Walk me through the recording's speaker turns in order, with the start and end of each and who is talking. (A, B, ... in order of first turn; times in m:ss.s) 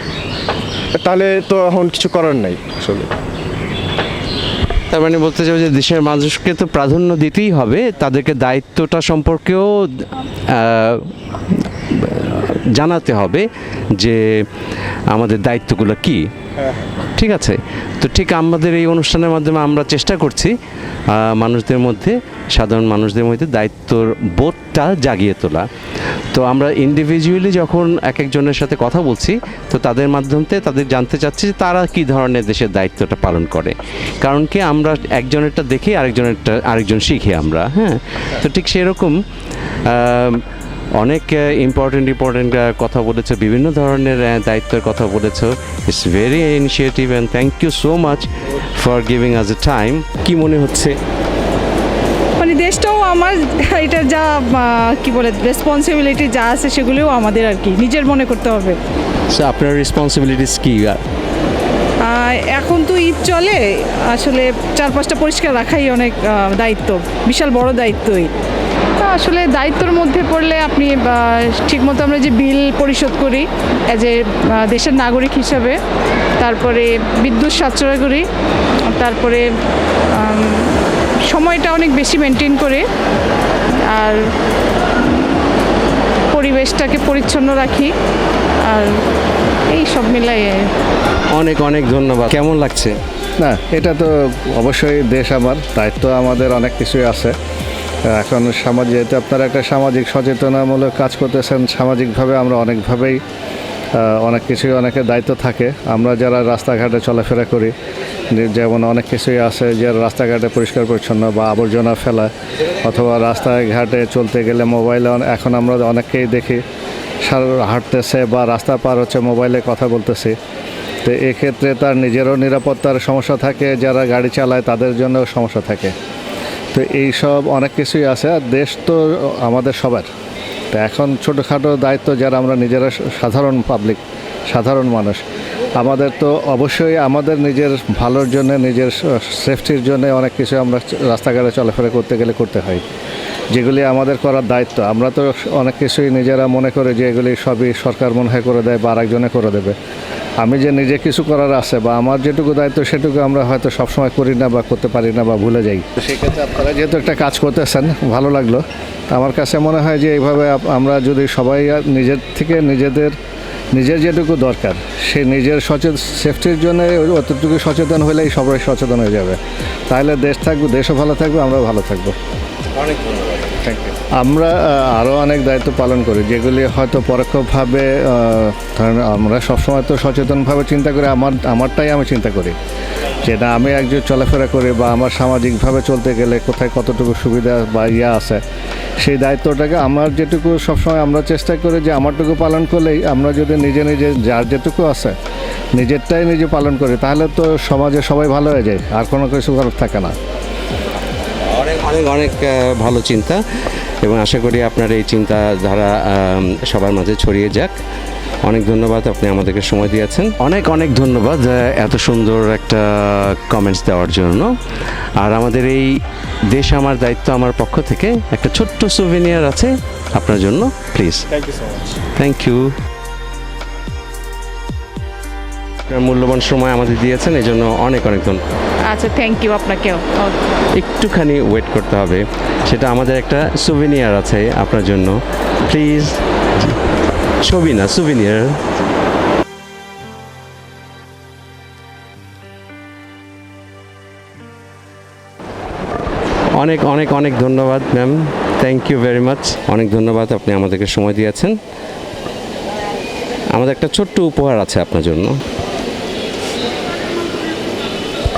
0:01.0-0:03.1 A
0:04.9-0:13.5 B
0:14.0-0:14.2 B
0:15.1-0:16.2 B
0:17.2-0:20.5 B
0:21.1-0:25.6 B
0:26.3-0:39.1 B
0:39.9-0:40.4 B
0:41.0-0:51.0 B
0:52.4-0:58.8 C
0:59.3-1:01.0 B
1:02.0-1:08.3 C
1:09.0-1:15.8 C
1:16.4-1:18.2 C
1:18.8-1:19.5 C
1:20.1-1:22.8 C
1:23.9-1:24.2 C
1:26.3-1:27.9 C
1:28.6-1:29.0 C
1:29.7-1:30.7 C
1:31.3-1:33.0 B
1:33.4-1:37.3 D
1:38.1-1:43.2 D
1:44.0-1:47.7 D
1:48.3-1:52.3 D
1:52.8-1:56.6 D
1:57.2-2:00.4 D
2:01.0-2:05.9 D
2:06.7-2:10.1 D
2:10.7-2:15.2 D
2:15.8-2:22.8 D
2:23.5-2:29.7 D
2:30.4-2:43.1 D
2:43.7-2:49.4 D
2:49.9-2:52.1 D
2:53.6-3:02.5 D
3:03.2-3:08.4 D
3:09.0-3:15.1 D
3:15.8-3:20.1 D
3:21.5-3:23.4 B
3:24.0-3:27.8 B
3:28.4-3:34.5 B
3:35.2-3:35.9 B
3:36.5-3:41.2 B
3:41.3-3:42.0 A
3:42.2-3:42.7 B
3:45.9-3:48.4 B
3:48.9-3:50.5 C
3:50.7-3:56.8 B
3:57.4-3:58.6 B
4:06.6-4:11.5 B
4:13.5-4:15.4 B